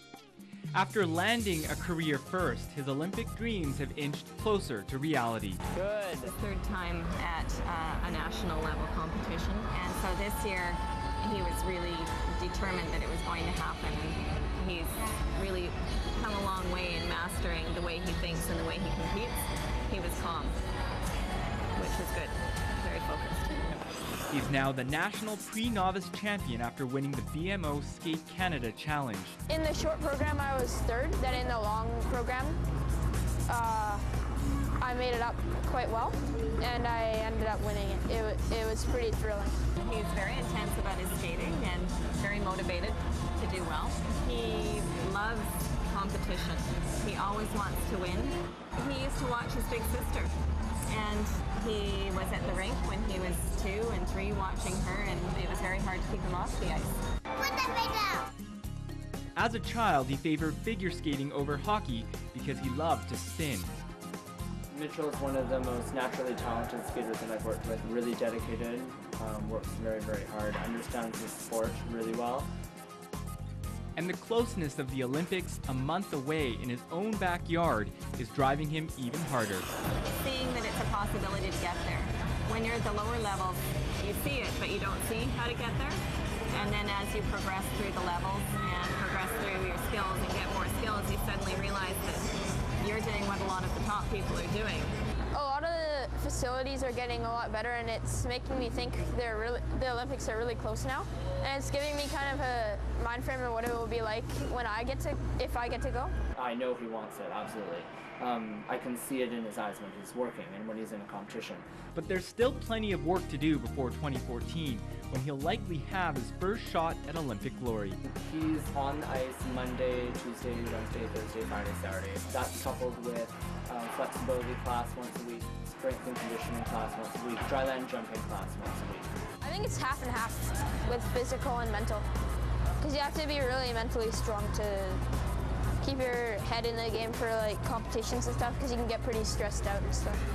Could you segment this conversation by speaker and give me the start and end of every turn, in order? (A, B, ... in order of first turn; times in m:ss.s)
0:00.7-0:05.6 A
0:05.8-0:06.2 B
0:06.2-0:20.6 C
0:21.7-0:23.8 C
0:24.3-0:29.4 A
0:29.5-0:32.6 D
0:33.5-0:34.0 D
0:34.8-0:39.6 D
0:39.8-0:50.3 C
0:50.9-0:57.0 C
0:59.4-1:03.7 A
1:04.7-1:12.5 B
1:14.0-1:19.7 A
1:20.2-1:35.0 C
1:35.3-1:46.1 D
1:46.3-1:51.7 B
1:51.9-1:58.0 A
1:58.0-2:09.1 B
2:09.4-2:12.1 D
2:12.8-2:15.0 D
2:15.8-2:20.2 D